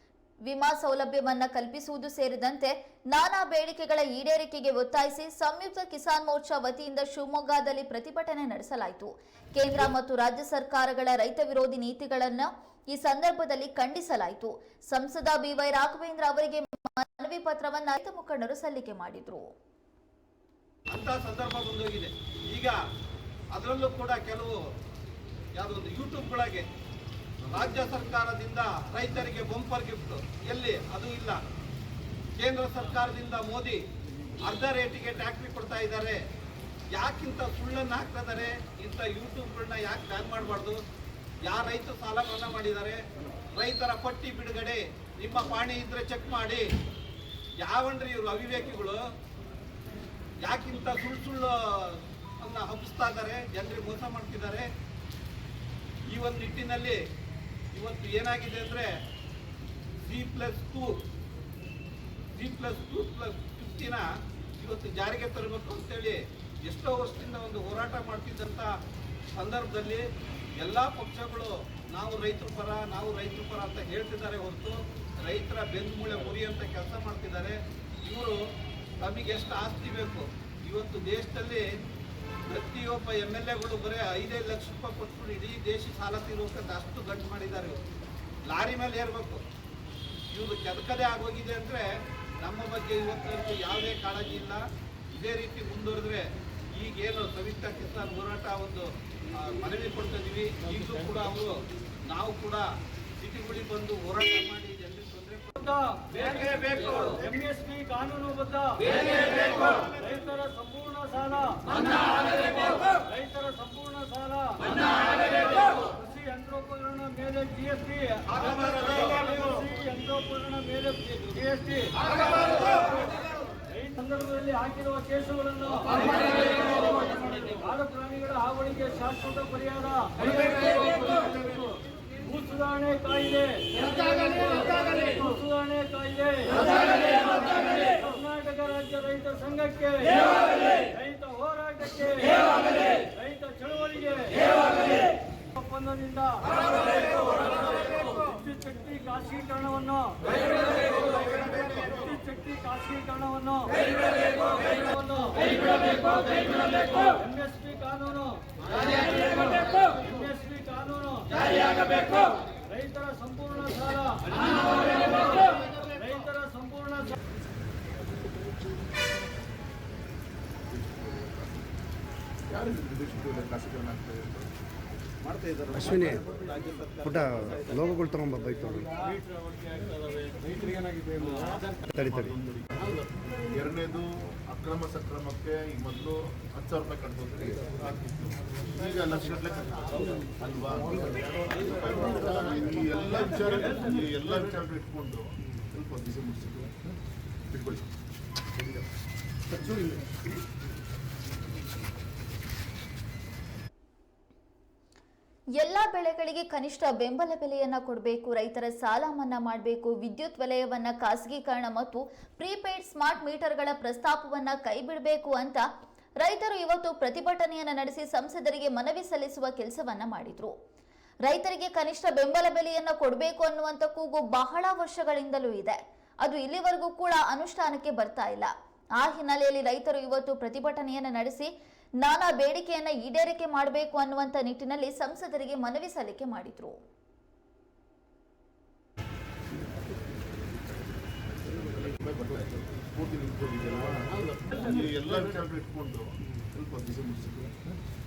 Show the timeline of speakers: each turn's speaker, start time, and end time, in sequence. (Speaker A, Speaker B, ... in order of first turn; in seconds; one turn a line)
Speaker A: 0.5-19.5
Speaker B: 20.9-22.8
Speaker B: 23.5-24.6
Speaker B: 25.6-26.7
Speaker B: 27.5-31.4
Speaker B: 32.4-33.8
Speaker B: 34.4-36.2
Speaker B: 36.9-40.8
Speaker B: 41.4-43.0
Speaker B: 43.5-46.6
Speaker B: 47.6-49.0
Speaker B: 50.4-54.7
Speaker B: 56.1-57.0
Speaker B: 57.7-58.9
Speaker B: 60.0-61.0
Speaker B: 62.3-64.0
Speaker B: 64.6-68.7
Speaker B: 69.3-70.0
Speaker B: 70.6-78.4
Speaker B: 79.0-81.7
Speaker B: 82.5-87.8
Speaker B: 88.5-89.4
Speaker B: 90.3-91.9
Speaker B: 92.4-102.7
Speaker B: 103.2-107.2
Speaker C: 105.6-106.0
Speaker C: 107.2-118.2
Speaker B: 118.3-119.2
Speaker C: 119.2-131.7
Speaker C: 132.2-167.2
Speaker D: 170.7-171.7
Speaker D: 172.5-174.5
Speaker B: 175.2-177.8
Speaker E: 175.9-176.2
Speaker E: 177.0-178.9
Speaker D: 180.5-196.9
Speaker E: 182.0-182.2
Speaker D: 197.5-197.8
Speaker A: 205.6-215.6
Speaker A: 216.2-220.5
Speaker A: 221.2-231.5
Speaker A: 232.0-236.8
Speaker D: 241.4-247.7